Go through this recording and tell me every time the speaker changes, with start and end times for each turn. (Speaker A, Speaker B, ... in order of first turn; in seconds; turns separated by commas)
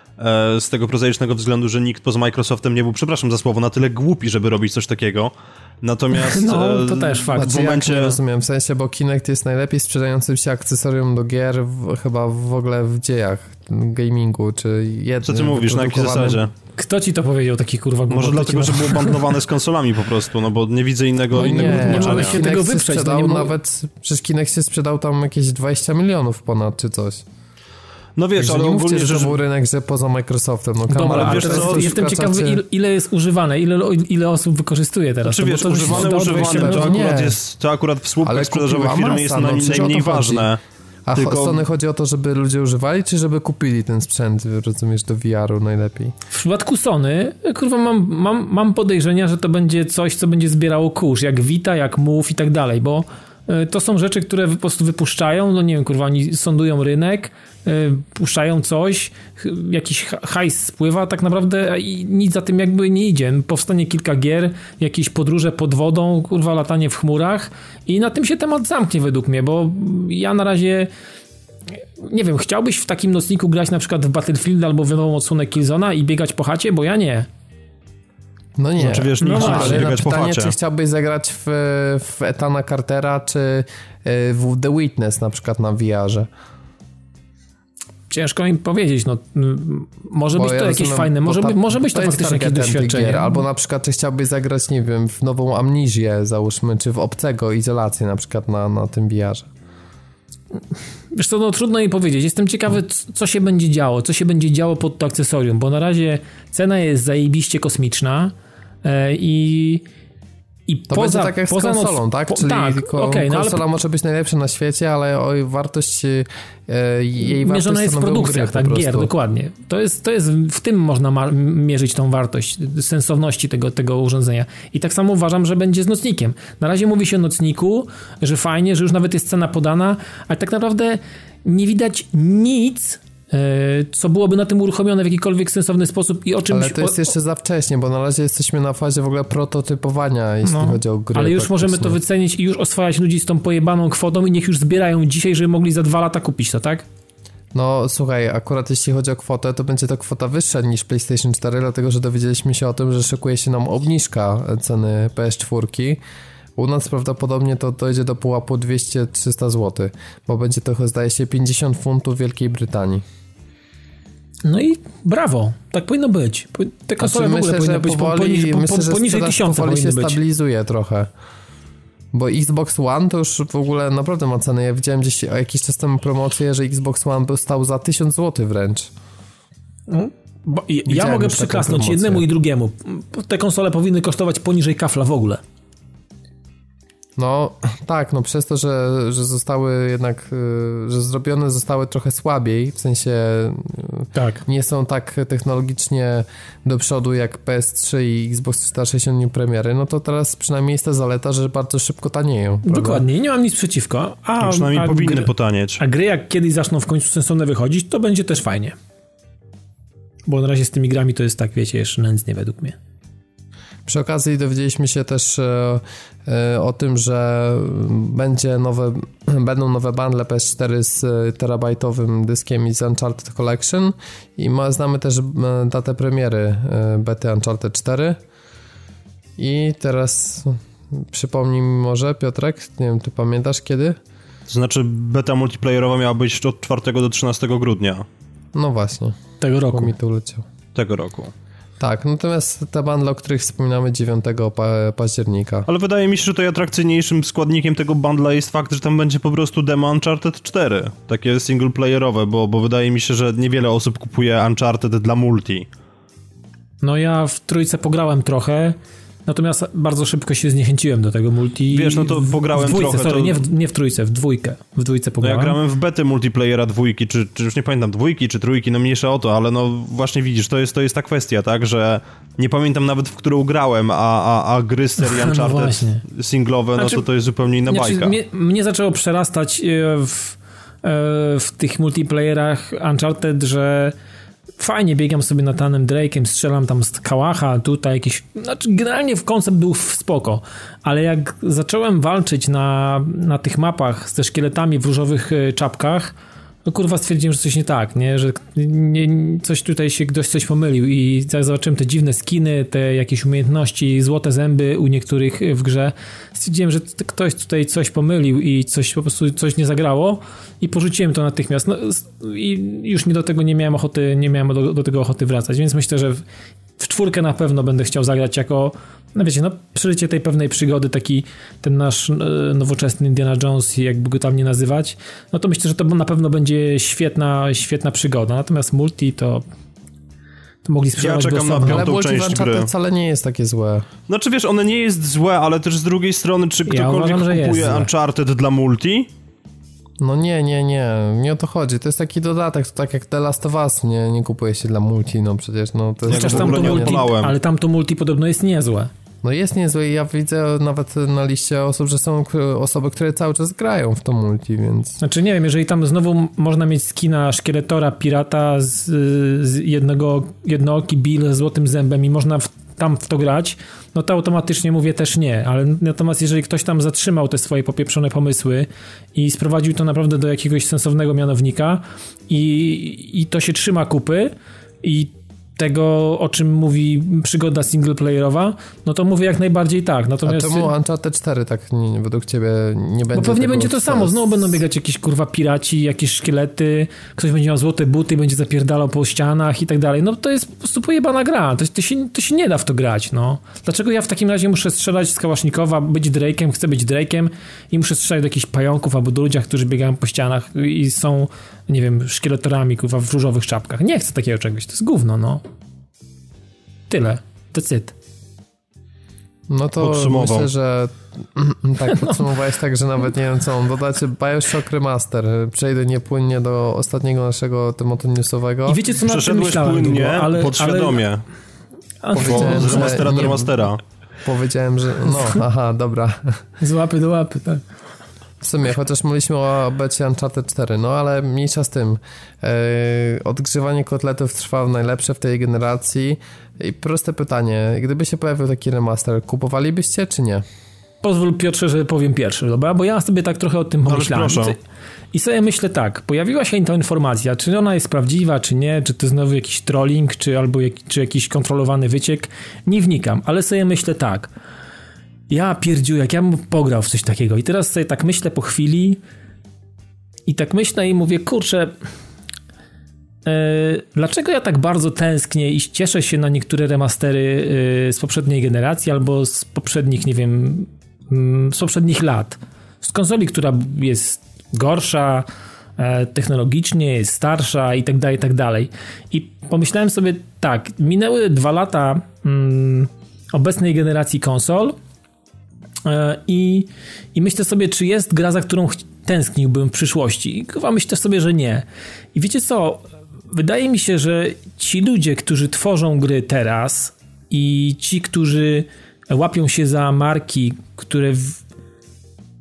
Speaker A: 0.2-8.2, Speaker B: 6.2-7.9, Speaker C: 7.3-16.5, Speaker A: 15.2-16.5, Speaker B: 16.8-19.2, Speaker A: 18.1-22.4, Speaker B: 21.3-23.5, Speaker C: 21.3-27.2, Speaker A: 28.2-29.4, Speaker C: 28.4-32.6, Speaker B: 30.9-37.1, Speaker A: 31.1-31.9, Speaker A: 35.2-40.6, Speaker C: 35.9-37.4, Speaker C: 38.2-40.5, Speaker C: 41.1-46.1, Speaker A: 41.1-41.6, Speaker B: 46.3-70.9, Speaker B: 72.0-77.3, Speaker C: 78.6-86.3, Speaker A: 78.8-80.5, Speaker B: 79.2-79.9, Speaker B: 88.1-93.4, Speaker C: 90.3-99.5, Speaker B: 101.1-109.8, Speaker B: 110.7-113.7, Speaker C: 110.9-119.1, Speaker B: 117.2-137.1, Speaker C: 136.5-142.0, Speaker B: 140.4-146.8, Speaker C: 147.5-156.0, Speaker C: 156.6-163.0, Speaker B: 164.4-170.2, Speaker C: 167.0-171.1, Speaker C: 172.1-178.9, Speaker B: 179.9-185.4, Speaker C: 180.9-182.2, Speaker C: 187.2-203.0, Speaker B: 194.2-194.4, Speaker B: 202.7-208.8, Speaker A: 204.4-205.8, Speaker B: 210.3-212.8, Speaker C: 213.9-228.2, Speaker C: 229.4-234.0, Speaker A: 234.5-238.1, Speaker C: 238.6-239.2, Speaker B: 239.4-239.9, Speaker C: 239.7-240.4, Speaker A: 240.8-241.3, Speaker C: 241.8-245.7, Speaker A: 245.7-255.7, Speaker B: 256.8-265.6, Speaker A: 261.7-263.4, Speaker A: 265.2-278.1, Speaker B: 275.0-276.0, Speaker B: 276.8-277.0, Speaker B: 277.7-283.9, Speaker B: 284.6-296.1, Speaker B: 296.7-316.2, Speaker B: 316.8-329.4, Speaker B: 330.6-331.9, Speaker A: 331.0-332.7, Speaker C: 331.6-333.9, Speaker A: 334.1-339.1, Speaker B: 336.7-337.9, Speaker C: 340.0-347.1, Speaker A: 346.1-347.3, Speaker B: 346.1-348.9, Speaker C: 349.2-355.0, Speaker B: 355.0-380.7, Speaker C: 380.2-384.2, Speaker B: 383.1-405.4, Speaker B: 406.9-407.9, Speaker C: 409.5-418.8, Speaker A: 409.8-410.5, Speaker B: 411.9-412.2, Speaker B: 418.7-421.0, Speaker A: 419.1-421.2, Speaker B: 422.0-423.4, Speaker C: 422.1-423.6, Speaker A: 422.2-423.8, Speaker C: 424.2-426.4, Speaker B: 426.6-427.6, Speaker C: 428.4-440.4, Speaker B: 441.0-444.6, Speaker A: 443.9-444.6, Speaker B: 445.1-454.3, Speaker B: 455.3-459.0, Speaker B: 460.3-461.8, Speaker B: 463.2-484.8, Speaker B: 485.9-501.4